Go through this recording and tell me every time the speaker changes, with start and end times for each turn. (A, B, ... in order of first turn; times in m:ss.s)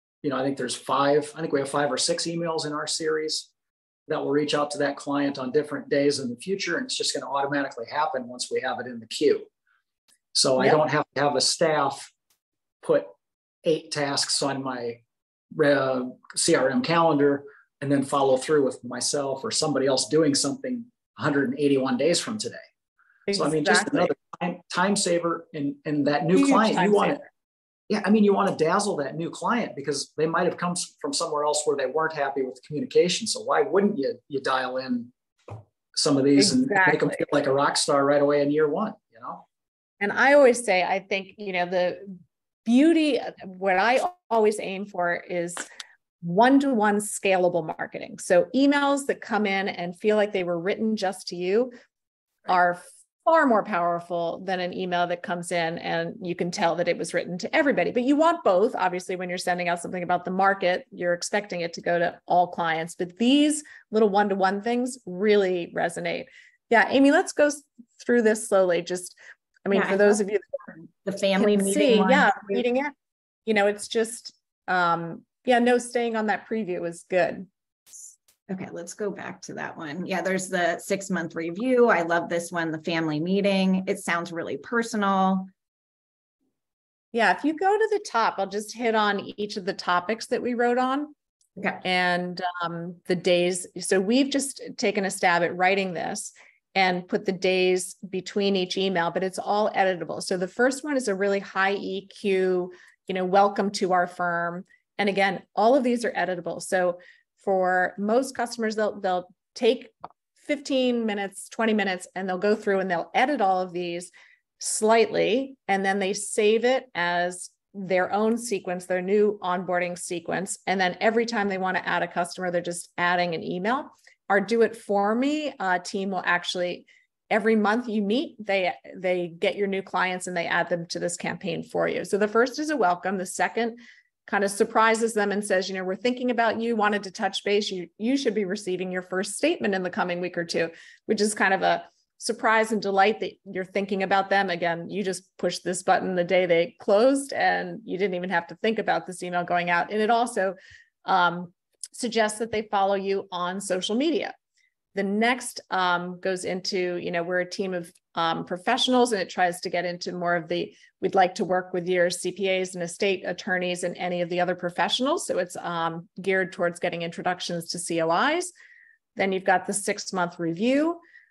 0:00.2-0:03.5 A
0:04.1-0:09.5 A
0:10.3-0:12.1 A
0:12.8-0:13.1 A
0:13.6-0:15.0 A
0:15.5-0:22.6 A
0:23.3-0:24.1 B
0:23.3-0:27.2 A
0:26.4-0:27.3 B
0:27.9-0:39.4 A
0:36.4-0:37.2 B
0:40.0-0:45.6 B
0:46.2-0:51.7 B
0:52.5-1:10.6 B
1:09.7-1:10.2 C
1:11.0-1:12.6 C
1:11.4-1:12.9 B
1:13.5-1:17.5 B
1:18.5-1:25.5 C
1:27.1-1:31.1 B
1:31.8-2:34.3 B
2:35.0-2:48.5 B
2:49.2-2:51.0 B